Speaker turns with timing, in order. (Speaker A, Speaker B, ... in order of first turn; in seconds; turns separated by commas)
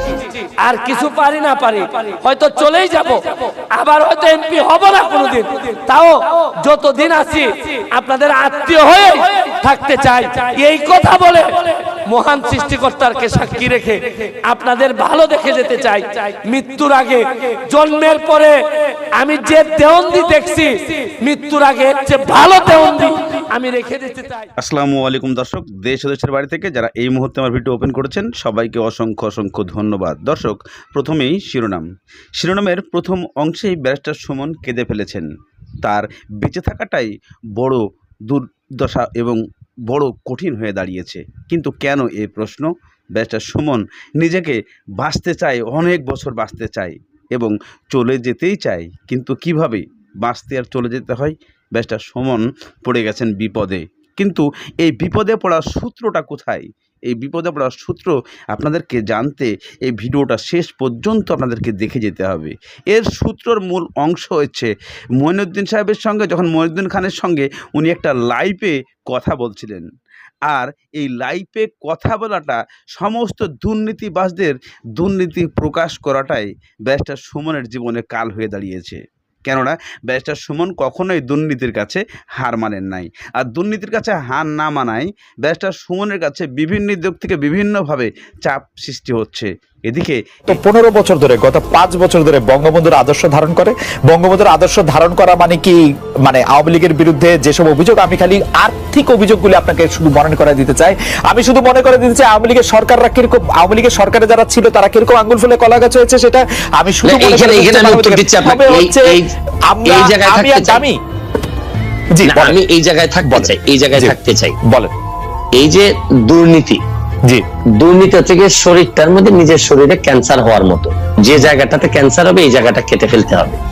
Speaker A: 0.6-3.2, Speaker A: 3.8-18.6, Speaker A: 19.2-24.5, Speaker B: 24.6-35.3, Speaker B: 35.8-69.9, Speaker B: 70.5-90.5, Speaker C: 90.5-95.7, Speaker C: 96.3-111.0, Speaker D: 107.1-109.3, Speaker D: 109.9-110.8, Speaker C: 112.2-112.6, Speaker D: 112.3-114.6, Speaker C: 113.2-114.9, Speaker D: 115.6-116.8, Speaker D: 117.8-123.6